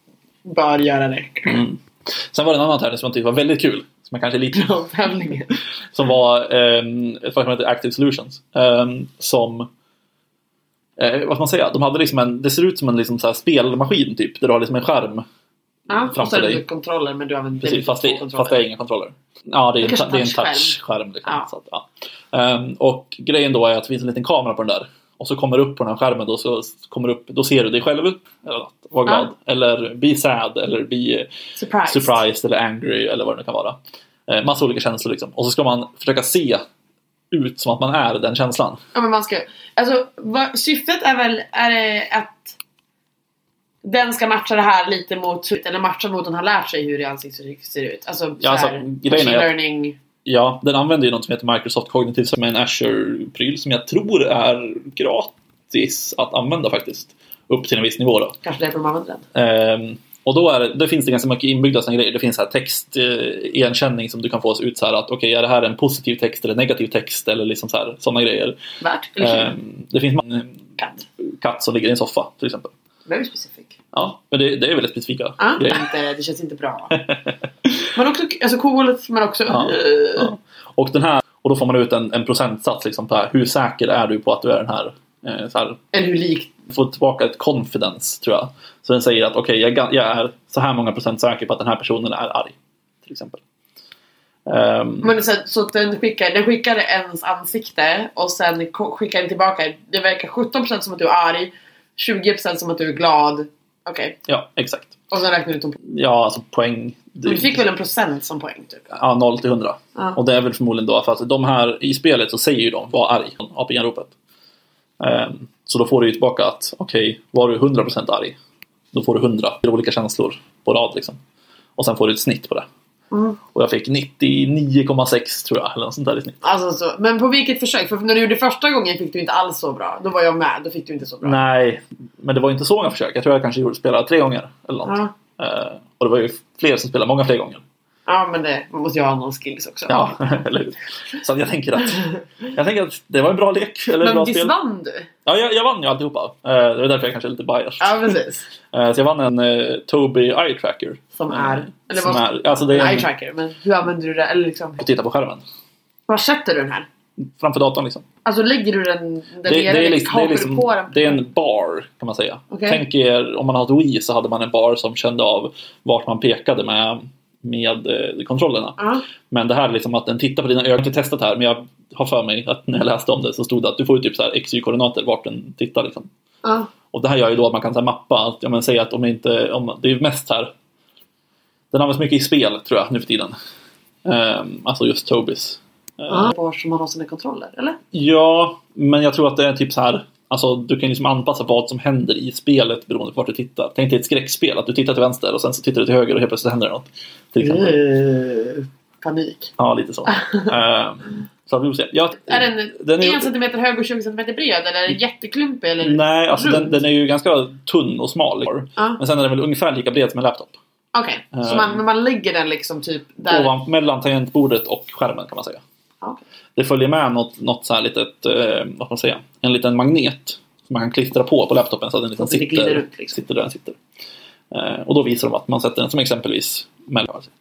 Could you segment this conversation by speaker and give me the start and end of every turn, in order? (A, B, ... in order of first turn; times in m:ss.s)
0:00.4-0:01.6 A
0:01.4-0:04.7 B
0:04.5-0:05.5 A
0:05.9-0:09.7 B
0:11.0-0:15.2 B
0:15.9-0:18.6 A
0:16.1-0:16.6 B
0:17.6-0:31.3 B
0:19.8-0:21.4 A
0:31.6-0:32.2 A
0:31.9-0:36.6 B
0:37.3-0:38.8 B
0:38.9-0:42.6 A
0:43.8-0:50.0 A
0:48.4-0:49.5 B
0:50.2-0:58.4 B
0:58.4-0:59.2 A
0:59.3-1:08.6 B
1:08.8-1:09.6 A
1:09.2-1:12.7 B
1:13.1-1:13.8 A
1:13.9-1:15.8 B
1:15.4-1:17.0 A
1:17.9-1:20.3 A
1:19.5-1:25.8 B
1:25.9-1:26.5 A
1:26.7-1:33.4 B
1:34.5-1:35.2 B
1:35.0-1:44.2 A
1:44.3-1:45.0 B
1:45.1-1:45.8 A
1:45.8-1:47.6 B
1:47.2-1:48.8 A
1:48.9-1:54.1 B
1:55.0-1:58.4 B
1:58.9-2:01.2 B
2:01.8-2:02.7 B
2:03.1-2:03.4 A
2:03.5-2:06.4 B
2:06.4-2:11.4 A
2:11.2-2:17.6 B
2:14.8-2:15.1 A
2:18.1-2:20.4 A
2:19.9-2:24.5 B
2:24.0-2:25.1 A
2:25.2-2:28.1 B
2:27.8-2:28.5 A
2:28.7-2:33.1 B
2:31.2-2:34.8 A
2:34.8-2:35.4 B
2:36.1-2:36.9 A
2:37.2-2:38.0 B
2:38.2-2:41.2 A
2:39.4-2:56.1 B
2:42.5-2:42.8 A
2:48.8-2:49.0 A
2:56.4-2:56.7 A
2:56.9-3:00.5 B
3:01.7-3:03.3 B
3:04.0-3:06.3 B
3:06.1-3:07.8 A
3:07.9-3:17.8 B
3:17.4-3:19.5 A
3:19.6-3:23.3 B
3:20.1-3:20.5 A
3:22.2-3:26.8 A
3:25.8-3:30.6 B
3:30.9-3:33.5 A
3:31.3-3:31.8 B
3:33.3-3:35.6 B
3:36.6-3:43.8 B
3:42.2-3:43.2 A
3:44.5-3:47.3 B